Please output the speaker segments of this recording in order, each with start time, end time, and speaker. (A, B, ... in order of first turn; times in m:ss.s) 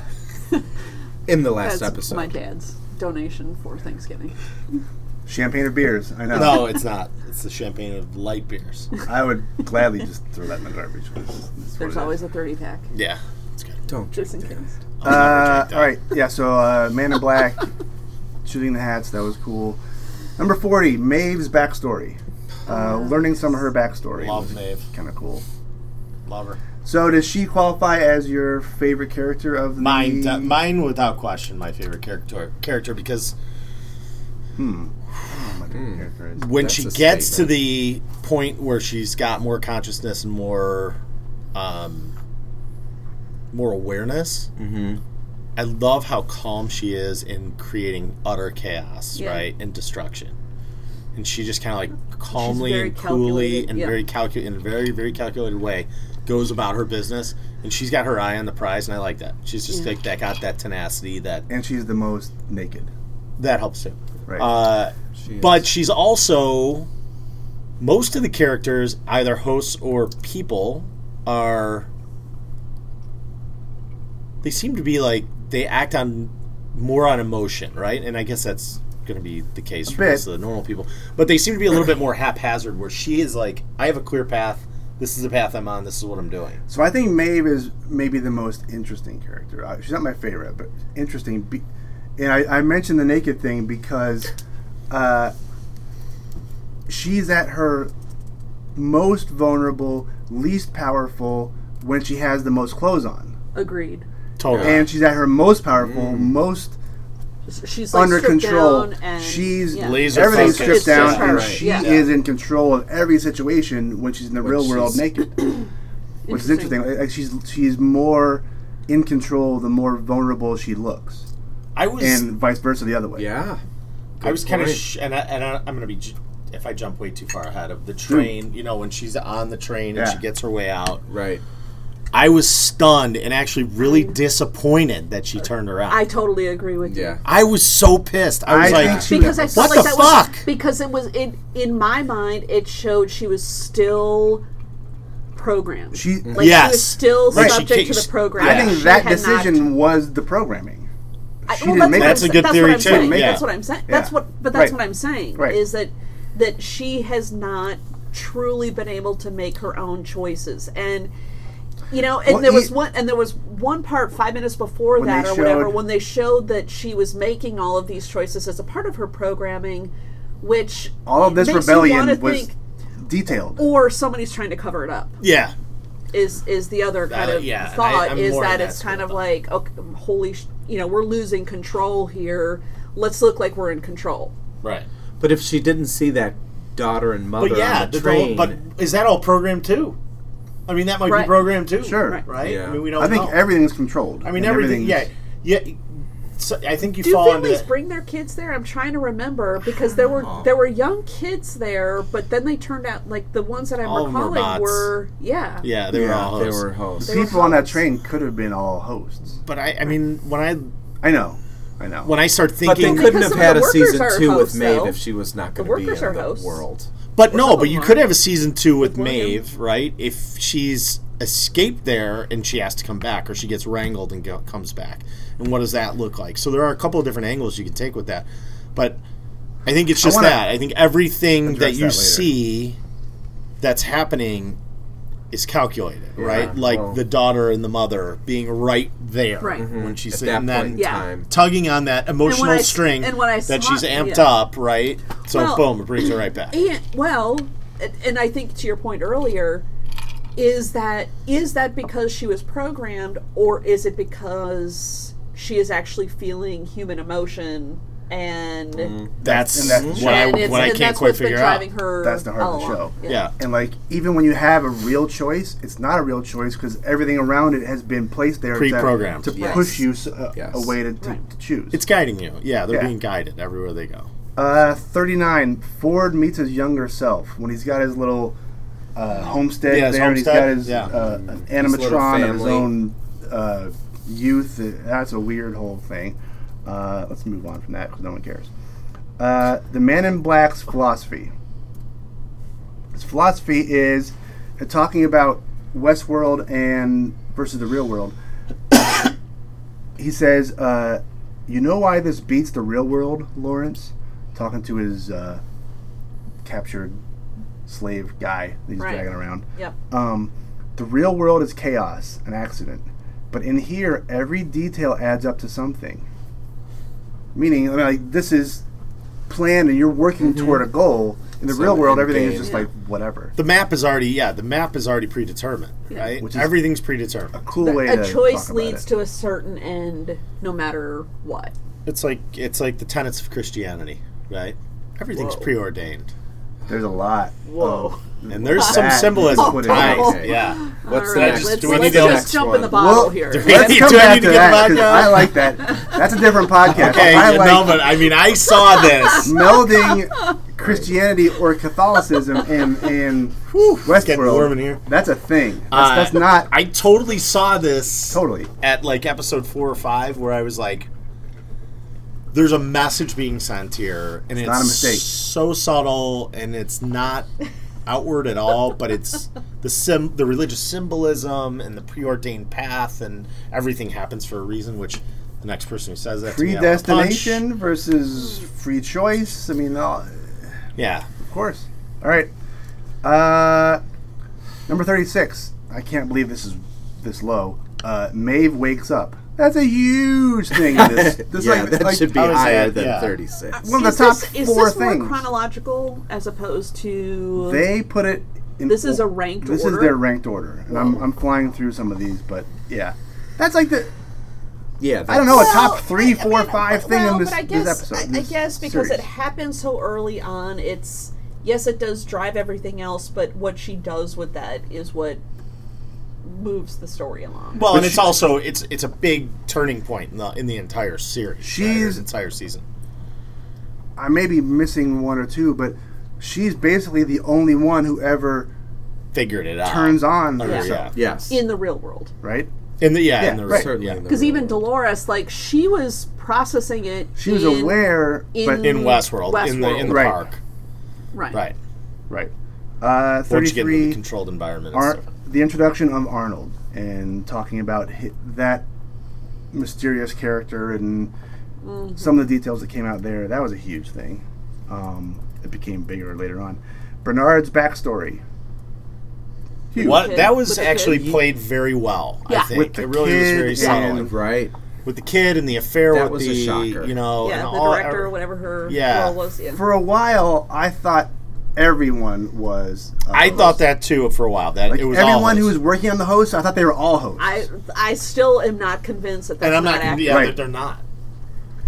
0:01.3-0:02.3 A
0:01.6-0:04.4 B
0:05.3-0:06.8 C
0:06.3-0:08.9 D
0:09.1-0:12.2 C
0:11.8-0:12.9 B
0:12.9-0:13.8 D
0:13.9-0:14.6 A
0:14.1-0:14.7 B
0:15.0-0:15.9 D
0:15.0-0:17.7 C
0:18.4-0:19.8 C
0:20.4-0:25.4 C
0:22.7-0:23.2 B
0:24.2-0:24.9 D
0:26.3-0:26.6 D
0:26.8-0:30.6 C
0:29.8-0:33.3 D
0:34.6-0:36.5 C
0:35.7-0:36.0 A
0:36.4-0:41.0 D
0:36.6-0:37.6 A
0:41.5-0:42.1 D
0:43.5-0:44.5 D
0:44.6-0:45.0 A
0:45.6-0:50.3 D
0:49.2-0:49.5 B
0:51.1-1:01.5 D
0:52.3-0:54.0 B
0:59.7-1:00.0 B
1:01.5-1:02.9 C
1:03.4-1:06.9 D
1:05.2-1:05.7 A
1:07.8-1:11.9 D
1:14.4-1:26.6 D
1:19.9-1:20.2 C
1:26.7-1:31.6 C
1:32.2-1:34.3 C
1:34.9-1:35.3 C
1:36.9-1:37.9 C
1:38.8-1:43.4 C
1:43.6-1:44.1 B
1:44.4-1:44.9 D
1:44.5-1:44.8 A
1:44.6-1:46.8 C
1:45.8-1:46.4 A
1:47.5-1:51.9 B
1:47.9-1:55.7 C
1:49.7-1:52.1 D
1:51.1-1:51.6 A
1:54.5-1:54.9 A
1:56.3-1:56.8 B
1:56.3-2:01.3 C
2:01.8-2:02.3 D
2:02.0-2:03.3 C
2:03.2-2:03.6 A
2:04.2-2:04.8 A
2:04.2-2:11.0 D
2:08.1-2:08.3 C
2:09.9-2:10.2 C
2:11.1-2:11.4 A
2:12.1-2:16.0 D
2:13.8-2:14.1 B
2:15.9-2:17.2 B
2:16.8-2:17.2 A
2:17.2-2:20.5 D
2:18.5-2:20.2 C
2:18.6-2:19.2 A
2:18.8-2:24.4 B
2:25.4-2:29.7 B
2:25.9-2:26.6 C
2:26.2-2:26.5 A
2:26.4-2:28.9 D
2:27.3-2:27.7 C
2:28.4-2:30.9 C
2:31.5-2:34.8 C
2:31.5-2:41.1 B
2:31.7-2:33.5 D
2:41.9-2:52.5 B
2:42.2-2:42.7 C
2:45.0-2:45.8 C
2:51.1-2:53.7 C
2:53.6-2:55.2 B
2:55.2-2:55.5 D
2:56.1-3:04.3 B
2:57.1-2:59.2 D
3:04.6-3:04.9 D
3:05.2-3:08.6 A
3:07.4-3:10.0 D
3:10.7-3:13.4 D
3:11.0-3:12.3 B
3:11.8-3:12.2 C
3:12.4-3:13.0 A
3:12.9-3:15.1 C
3:14.2-3:17.7 D
3:17.0-3:25.7 B
3:20.0-3:20.5 A
3:23.8-3:24.9 D
3:25.6-3:26.7 D
3:25.9-3:27.3 A
3:27.0-3:29.4 C
3:27.0-3:27.8 B
3:29.4-3:30.7 D
3:31.0-3:32.1 C
3:32.0-3:33.6 D
3:32.6-3:36.9 A
3:32.8-3:35.0 B
3:35.6-3:36.6 B
3:37.2-3:49.0 D
3:37.3-3:38.2 B
3:38.8-3:39.4 B
3:49.7-3:52.8 D
3:50.0-3:50.5 C
3:51.4-3:52.4 C
3:53.6-3:54.6 D
3:55.3-4:06.6 D
3:56.2-3:57.0 A
3:59.4-3:59.7 B
3:59.6-4:01.3 A
4:00.7-4:01.1 B
4:02.2-4:04.4 B
4:05.3-4:09.6 B
4:10.4-4:19.0 B
4:18.8-4:19.1 A
4:19.2-4:20.8 C
4:19.2-4:21.7 D
4:19.7-4:20.0 A
4:19.9-4:23.2 B
4:22.0-4:31.8 C
4:23.1-4:23.3 D
4:28.5-4:29.4 D
4:29.3-4:30.7 A
4:29.4-4:29.6 B
4:31.7-4:34.1 D
4:34.4-4:38.4 C
4:39.0-4:48.5 C
4:39.6-4:40.9 D
4:40.9-4:42.7 A
4:49.2-4:51.3 C
4:52.9-4:58.2 C
5:00.0-5:05.4 C
5:06.4-5:07.0 C
5:07.7-5:16.0 C
5:08.8-5:09.8 B
5:17.4-5:18.6 C
5:19.3-5:23.4 C
5:20.2-5:20.6 A
5:21.5-5:22.6 A
5:22.4-5:22.7 B
5:23.4-5:27.4 D
5:25.9-5:26.2 B
5:26.2-5:26.6 C
5:27.4-5:28.9 C
5:27.6-5:31.5 B
5:31.8-5:36.1 D
5:35.1-5:35.5 B
5:36.7-5:40.3 C
5:37.4-5:38.0 B
5:38.3-5:42.6 D
5:39.6-5:42.9 A
5:39.8-5:44.1 B
5:42.6-5:48.1 C
5:43.3-5:45.4 D
5:45.6-5:46.0 B
5:46.6-5:49.6 D
5:48.7-5:50.0 B
5:49.2-5:56.5 C
5:50.6-5:50.9 A
5:54.0-5:54.8 D
5:55.7-6:00.9 D
5:58.1-5:58.5 C
6:02.3-6:07.3 D
6:04.4-6:05.1 C
6:07.9-6:17.4 D
6:16.3-6:20.6 C
6:20.8-6:21.1 D
6:21.2-6:22.3 C
6:23.0-6:23.8 C
6:24.7-6:32.4 C
6:30.6-6:33.6 A
6:32.1-6:33.2 D
6:33.6-6:35.2 C
6:33.6-6:37.7 B
6:37.4-6:43.9 C
6:38.7-6:40.0 B
6:44.8-6:45.7 A
6:45.1-6:49.0 C
6:45.2-6:55.2 B
6:56.2-6:57.7 B
6:57.6-7:02.6 D
6:57.6-6:58.2 C
7:01.4-7:02.0 C
7:04.0-7:08.5 C
7:09.1-7:10.9 D
7:09.6-7:10.9 C
7:10.4-7:12.1 B
7:10.9-7:11.4 A
7:12.2-7:12.5 C
7:12.8-7:14.0 D
7:13.2-7:13.7 C
7:13.4-7:14.7 A
7:14.1-7:20.2 B
7:17.2-7:18.9 C
7:18.6-7:20.4 D
7:19.8-7:20.2 C
7:21.1-7:21.5 B
7:22.1-7:24.0 C
7:23.3-7:25.1 D
7:24.7-7:28.7 C
7:29.5-7:31.1 C
7:31.6-7:32.3 B
7:32.0-7:38.2 C
7:39.7-7:40.3 C
7:39.8-7:44.1 D
7:39.8-7:41.2 B
7:42.5-7:44.1 C
7:43.6-7:44.5 A
7:44.8-7:48.1 D
7:45.9-7:46.9 A
7:47.2-7:49.6 B
7:48.7-7:49.2 D
7:49.5-7:53.6 C
7:53.1-7:55.6 D
7:54.7-7:57.4 C
7:57.2-8:00.4 B
7:59.4-8:00.8 D
8:00.0-8:00.4 C